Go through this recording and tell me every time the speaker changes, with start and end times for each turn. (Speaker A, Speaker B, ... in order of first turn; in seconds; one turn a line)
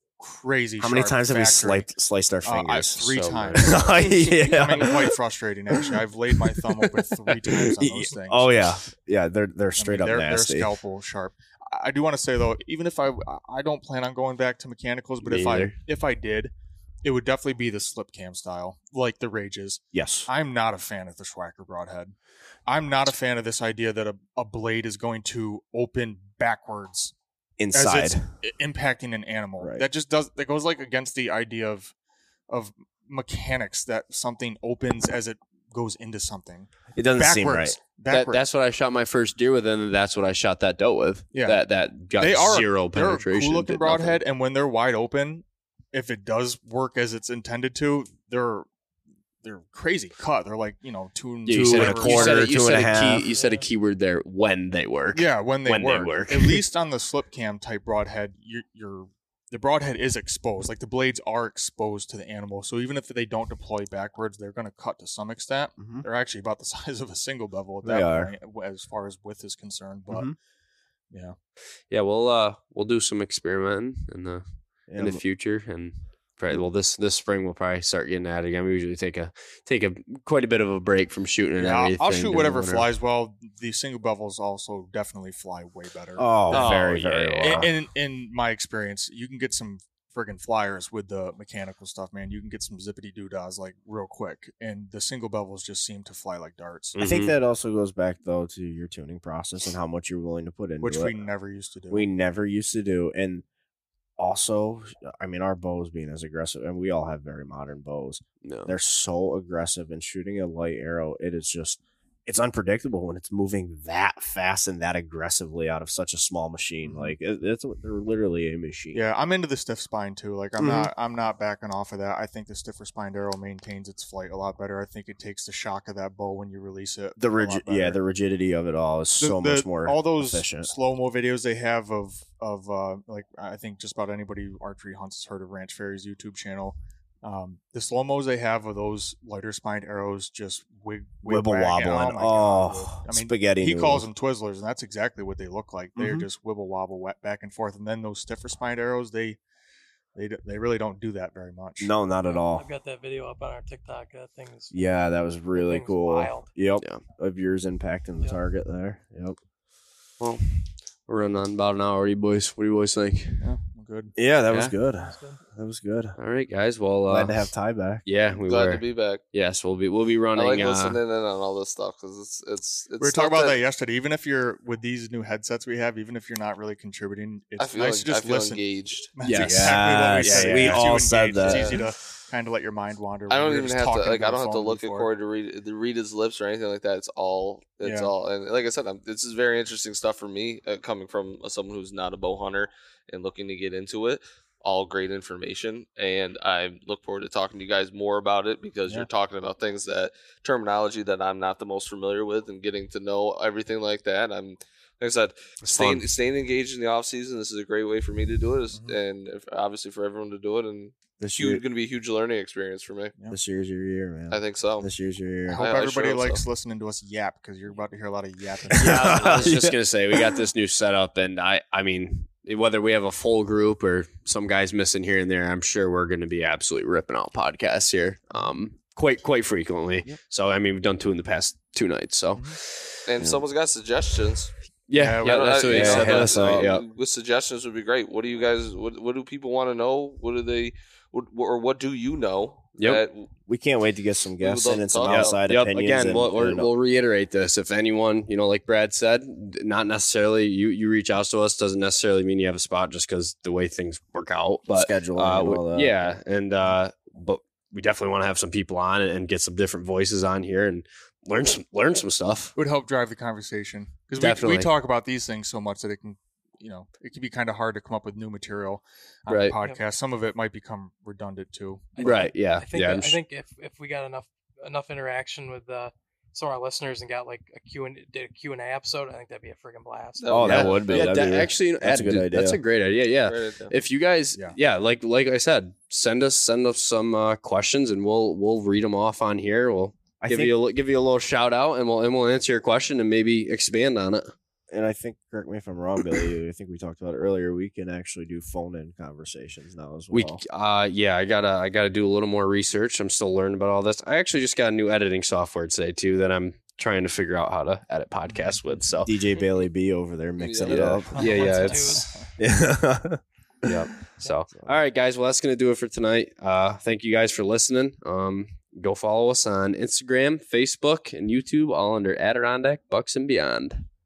Speaker A: 0.2-1.9
Speaker B: 0.8-3.1
Speaker A: 2.4-8.5
Speaker C: 3.1-3.9
Speaker B: 3.6-5.2
Speaker B: 6.4-10.7
Speaker A: 9.8-16.5
Speaker C: 15.2-15.8
Speaker A: 17.0-22.1
Speaker B: 19.9-20.3
Speaker A: 22.7-27.1
Speaker B: 27.6-28.3
Speaker A: 27.7-31.9
Speaker B: 29.6-29.9
Speaker A: 32.5-38.4
Speaker B: 37.0-37.8
Speaker C: 38.1-44.2
Speaker A: 41.3-41.6
Speaker A: 42.2-48.7
Speaker A: 49.4-52.6
Speaker C: 51.5-56.6
Speaker B: 51.5-53.3
Speaker D: 53.3-53.7
Speaker A: 55.1-70.3
Speaker B: 65.8-66.1
Speaker B: 67.8-68.3
Speaker A: 71.1-71.4
Speaker C: 71.9-82.9
Speaker B: 74.9-75.2
Speaker A: 81.6-86.9
Speaker B: 86.2-87.7
Speaker C: 86.5-87.7
Speaker A: 87.4-97.0
Speaker C: 97.0-97.3
Speaker B: 97.0-101.2
Speaker A: 100.8-102.1
Speaker B: 101.9-103.5
Speaker B: 104.2-119.0
Speaker C: 108.4-108.7
Speaker A: 116.8-117.2
Speaker A: 118.9-128.0
Speaker B: 120.6-120.9
Speaker B: 127.2-130.7
Speaker A: 129.2-149.4
Speaker B: 141.2-144.1
Speaker B: 146.0-146.3
Speaker A: 150.2-151.9
Speaker B: 151.8-152.7
Speaker D: 152.2-154.8
Speaker B: 154.7-159.4
Speaker D: 155.5-156.5
Speaker C: 160.2-163.5
Speaker A: 163.4-164.1
Speaker B: 164.2-166.2
Speaker D: 165.1-165.4
Speaker C: 166.2-167.5
Speaker B: 167.1-168.0
Speaker C: 168.1-171.0
Speaker E: 168.4-169.2
Speaker E: 170.3-173.6
Speaker A: 173.0-185.1
Speaker E: 177.6-179.1
Speaker C: 179.2-181.8
Speaker B: 179.4-181.9
Speaker E: 183.3-213.1
Speaker A: 187.8-188.1
Speaker C: 205.6-206.1
Speaker B: 211.2-211.6
Speaker B: 213.3-215.6
Speaker E: 214.3-214.9
Speaker E: 215.5-216.4
Speaker A: 215.5-219.5
Speaker C: 218.7-233.4
Speaker B: 218.8-219.7
Speaker E: 233.1-234.5
Speaker C: 234.9-236.8
Speaker A: 234.9-236.2
Speaker E: 235.2-243.3
Speaker B: 235.7-236.8
Speaker C: 242.8-243.0
Speaker B: 243.5-246.7
Speaker E: 244.4-245.4
Speaker C: 245.0-262.6
Speaker B: 254.7-255.9
Speaker A: 262.6-272.2
Speaker C: 264.2-264.7
Speaker C: 269.3-269.6
Speaker D: 272.0-280.6
Speaker C: 272.0-273.2
Speaker E: 280.2-281.2
Speaker B: 280.3-282.6
Speaker C: 280.4-294.3
Speaker E: 283.3-283.8
Speaker B: 290.2-290.5
Speaker B: 294.7-300.4
Speaker C: 300.1-309.1
Speaker A: 308.3-308.6
Speaker B: 309.1-311.7
Speaker E: 310.4-311.0
Speaker C: 310.7-312.1
Speaker D: 311.1-312.3
Speaker B: 312.4-313.9
Speaker C: 313.6-323.9